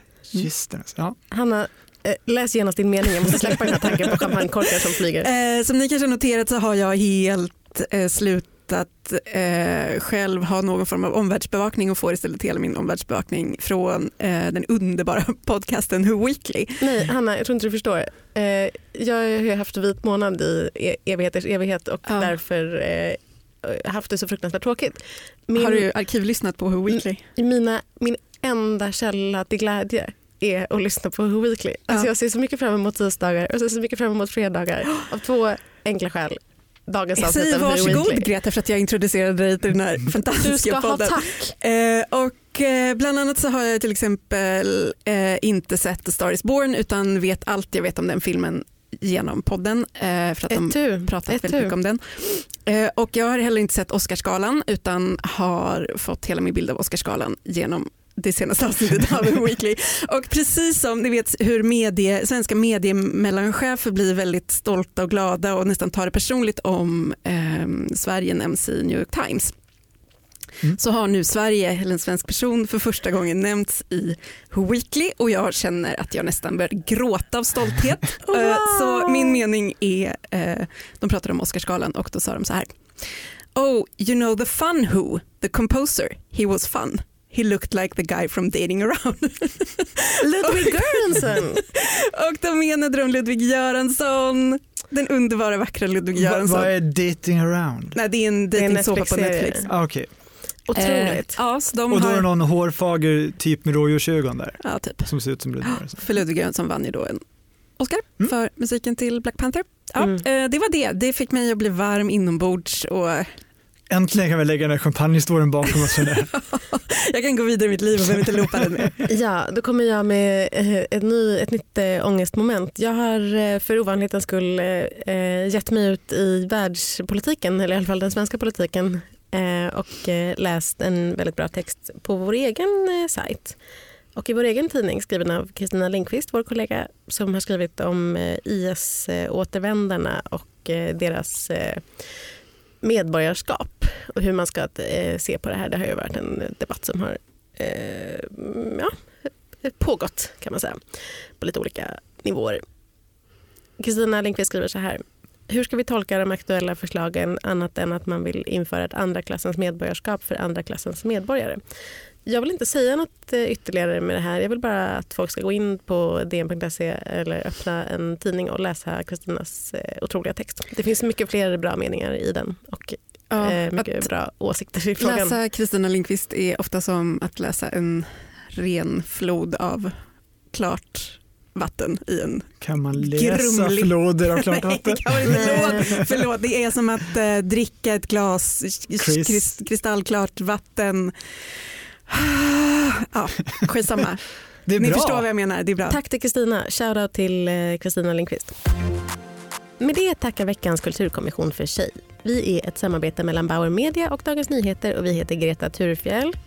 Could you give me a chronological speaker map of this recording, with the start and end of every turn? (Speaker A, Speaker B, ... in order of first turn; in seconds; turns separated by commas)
Speaker A: 0.3-1.2, Speaker B: 1.3-5.3, Speaker C: 5.2-16.8, Speaker B: 16.8-25.9, Speaker C: 22.1-22.3, Speaker C: 25.6-27.2, Speaker B: 26.9-38.3, Speaker C: 37.2-69.5, Speaker B: 40.4-41.5, Speaker B: 50.5-51.7, Speaker C: 70.7-96.7, Speaker B: 78.3-79.3, Speaker B: 90.2-91.6, Speaker A: 96.2-98.0, Speaker C: 97.9-99.7, Speaker B: 98.5-99.7, Speaker A: 99.7-100.1, Speaker B: 100.7-101.4, Speaker C: 100.7-102.3, Speaker A: 101.9-106.0, Speaker C: 104.6-107.2, Speaker C: 107.8-113.3, Speaker A: 113.9-116.3, Speaker C: 115.9-119.0, Speaker A: 118.1-118.9, Speaker B: 119.1-133.6, Speaker B: 134.1-142.1, Speaker B: 142.8-152.6, Speaker B: 153.8-161.6, Speaker B: 162.2-175.4, Speaker C: 173.3-174.1, Speaker C: 175.0-180.0, Speaker C: 180.5-196.0, Speaker A: 182.6-186.2, Speaker B: 185.3-185.8, Speaker A: 189.0-189.5, Speaker A: 194.7-195.3, Speaker B: 195.9-198.6, Speaker B: 199.8-206.4